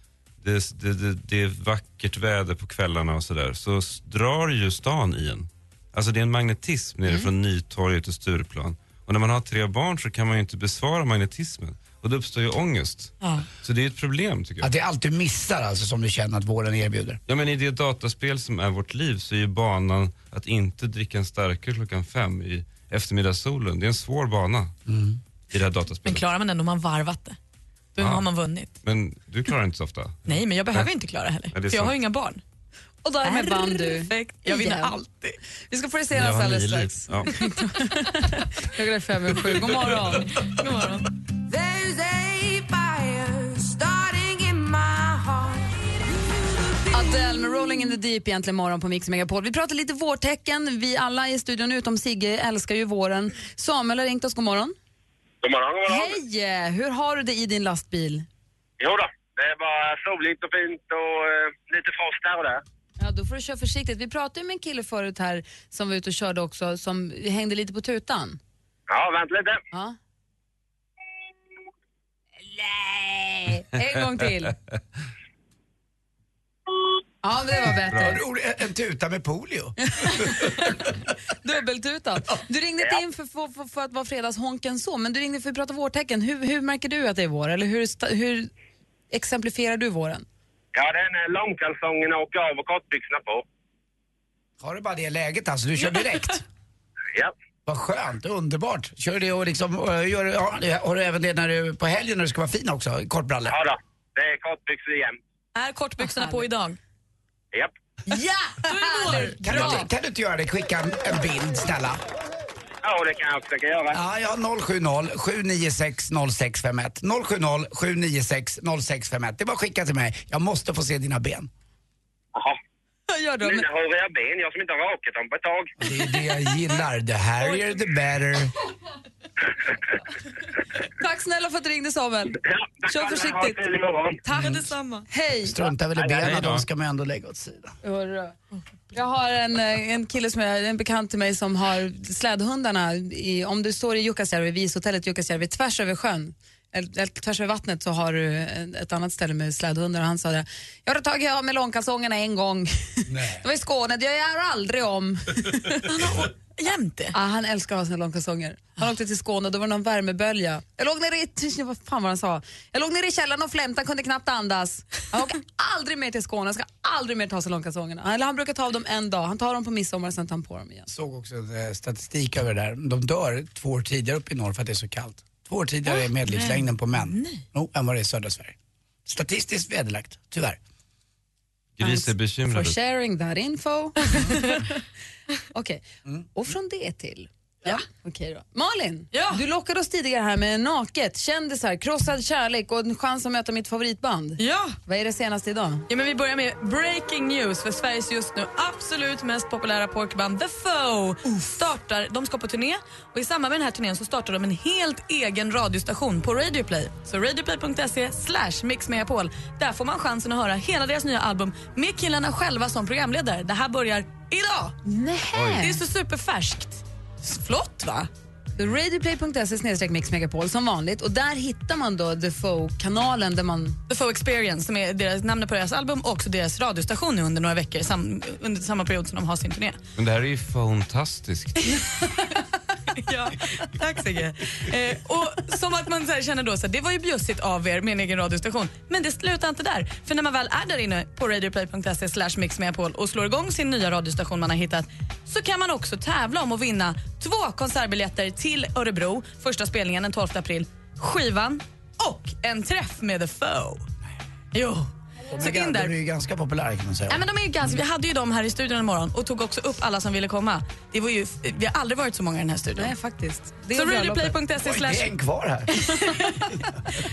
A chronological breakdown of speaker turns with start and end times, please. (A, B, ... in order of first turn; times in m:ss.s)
0:00.4-0:14.7 A
0:13.2-0:13.5 B
0:14.6-0:17.2 C
0:17.3-0:24.7 A
0:24.9-0:25.2 C
0:25.5-0:26.2 A
0:26.0-0:27.4 B
0:27.9-0:28.8 B
0:28.0-0:28.3 A
0:28.8-0:30.9 A
0:30.2-0:32.4 B
0:31.5-0:32.0 A
0:33.0-0:35.0 D
0:33.2-0:35.4 B
0:35.7-0:40.3 D
0:36.1-0:37.3 A
0:40.4-0:41.1 B
0:41.8-0:42.7 D
0:46.9-0:54.8 D
0:55.4-0:56.2 E
0:55.8-0:58.2 D
0:58.8-1:02.6 E
1:03.0-1:08.4 D
1:08.9-1:09.6 E
1:09.7-1:10.0 D
1:12.5-1:14.6 D
1:17.2-1:18.2 D
1:17.9-1:20.5 C
1:20.0-1:28.5 D
1:29.1-1:30.2 D
1:30.8-1:33.4 E
1:34.6-1:36.4 C
1:37.7-1:43.6 C
1:43.5-1:45.2 E
1:45.6-1:46.8 B
1:48.1-1:49.9 D
1:48.6-1:49.8 B
1:49.2-1:52.0 C
1:52.8-1:54.0 E
1:53.9-2:01.5 C
2:03.1-2:03.6 D
2:03.4-2:05.7 E
2:05.8-2:08.5 C
2:11.0-2:13.6 D
2:12.4-2:14.2 E
2:14.3-2:14.6 D
2:14.3-2:15.1 B
2:14.4-2:14.7 C
2:15.1-2:15.6 D
2:15.4-2:17.7 C
2:16.2-2:16.6 A
2:17.8-2:18.4 D
2:18.9-2:35.9 D
2:33.0-2:33.4 C
2:35.8-2:37.2 B
2:37.1-2:50.9 D
2:50.9-3:00.6 C
2:55.9-2:57.4 B
3:01.8-3:02.8 A
3:01.8-3:04.6 D
3:04.2-3:04.6 B
3:05.5-3:05.8 D
3:06.3-3:15.8 D
3:09.1-3:09.4 B
3:14.4-3:14.8 B
3:15.9-3:34.7 B
3:34.8-3:35.8 D
3:35.6-3:38.1 B
3:38.6-3:43.8 D
3:43.9-3:49.8 B
3:50.0-3:51.8 A
3:53.0-4:13.9 B
4:14.5-4:15.9 B
4:15.3-4:17.2 C
4:17.1-4:22.9 B
4:22.8-4:24.4 D
4:23.7-4:25.1 B
4:24.6-4:25.7 C
4:25.7-4:26.7 B